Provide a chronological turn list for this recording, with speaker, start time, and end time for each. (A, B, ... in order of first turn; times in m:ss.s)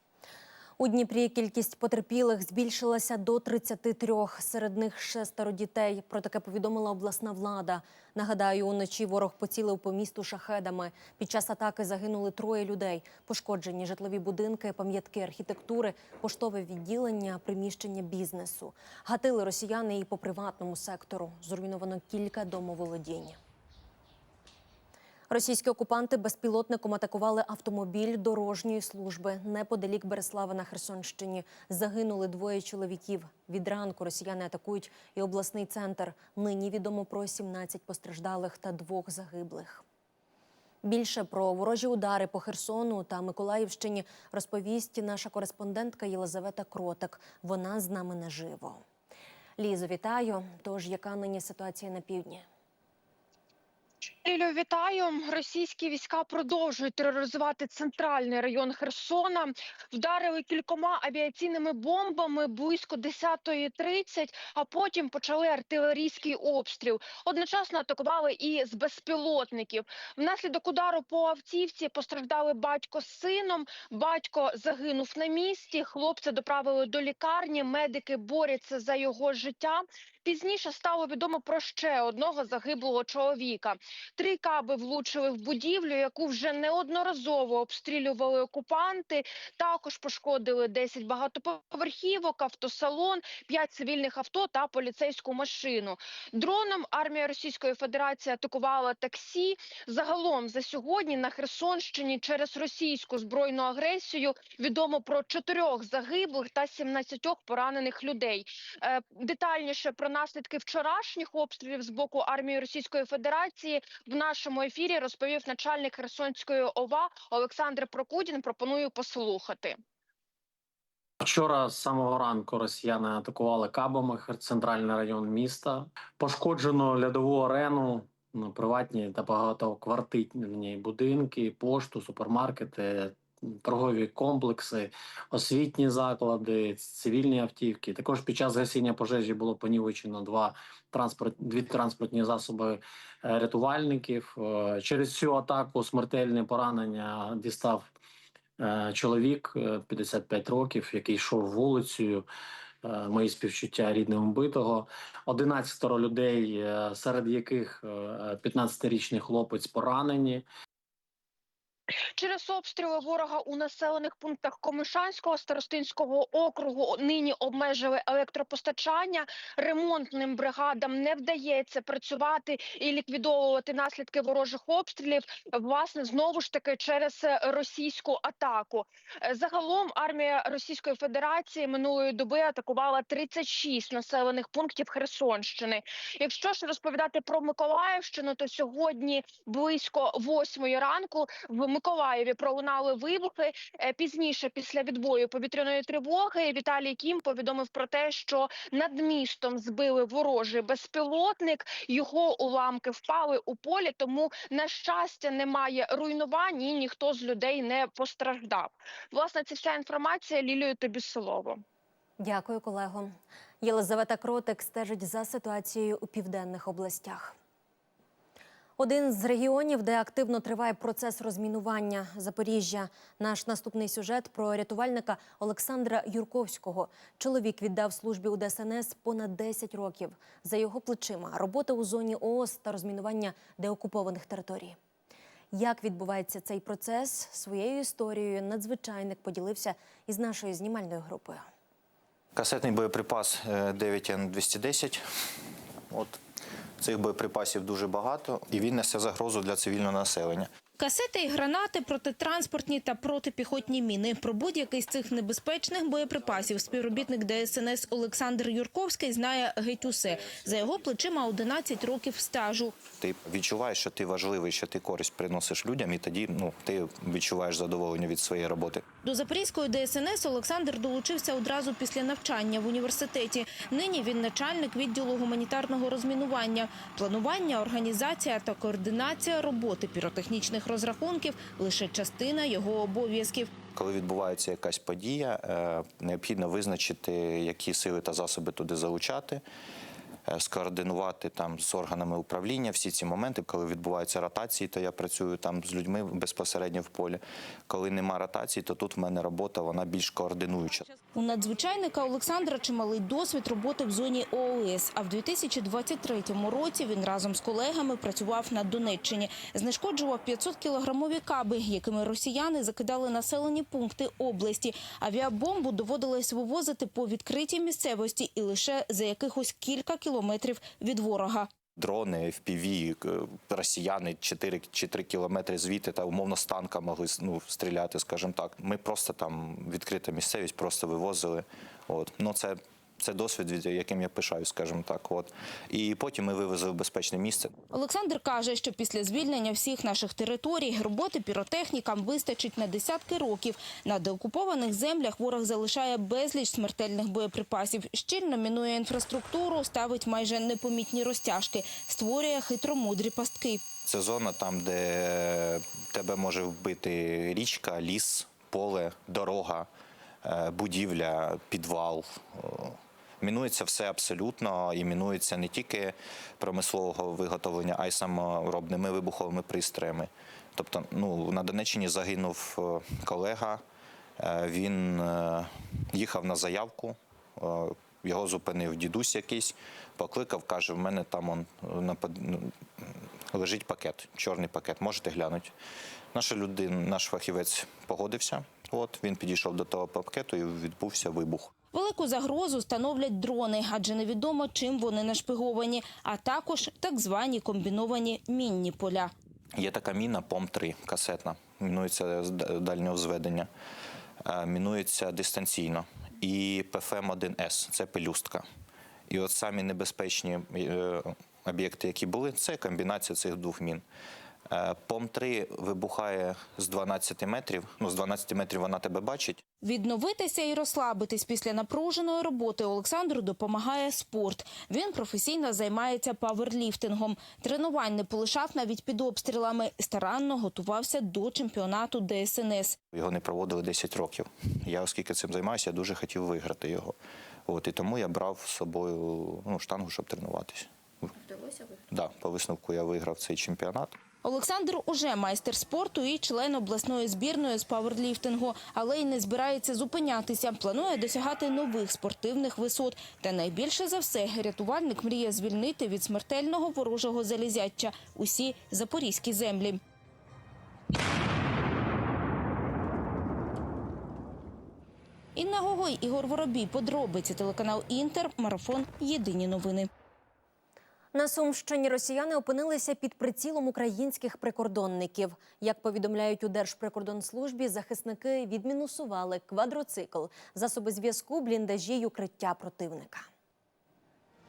0:00.8-0:23.4 A
0:25.3-0:39.8 A
0:40.8-0:48.8 A
0:49.6-0:52.4 A
0:54.2-1:59.8 B
2:01.2-2:27.8 C
2:28.6-2:32.2 C
2:32.8-2:40.4 C
2:42.1-3:31.6 B
3:32.2-3:37.3 A
3:38.8-3:54.8 A
3:55.5-4:01.4 A
4:02.4-4:05.0 D
4:05.9-4:06.2 D
4:06.8-4:10.5 D
4:10.8-4:22.8 E
4:22.9-4:28.9 D
4:29.0-4:43.5 E
4:43.7-4:49.4 D
4:50.3-5:00.9 D
5:01.1-5:21.5 E
5:21.8-5:37.5 D
5:37.7-5:53.7 E
5:53.8-5:59.7 D
6:00.2-6:13.6 D
6:14.2-6:25.5 D
6:26.1-6:31.5 D
6:31.7-6:39.1 E
6:39.6-6:43.5 D
6:44.2-6:48.4 D
6:49.1-6:53.8 D
6:54.5-6:59.4 D
6:59.6-7:12.8 E
7:12.9-7:16.9 D
7:17.5-7:21.2 D
7:21.9-7:24.0 D
7:24.2-7:39.8 E
7:45.4-7:49.9 E
7:51.1-8:03.3 A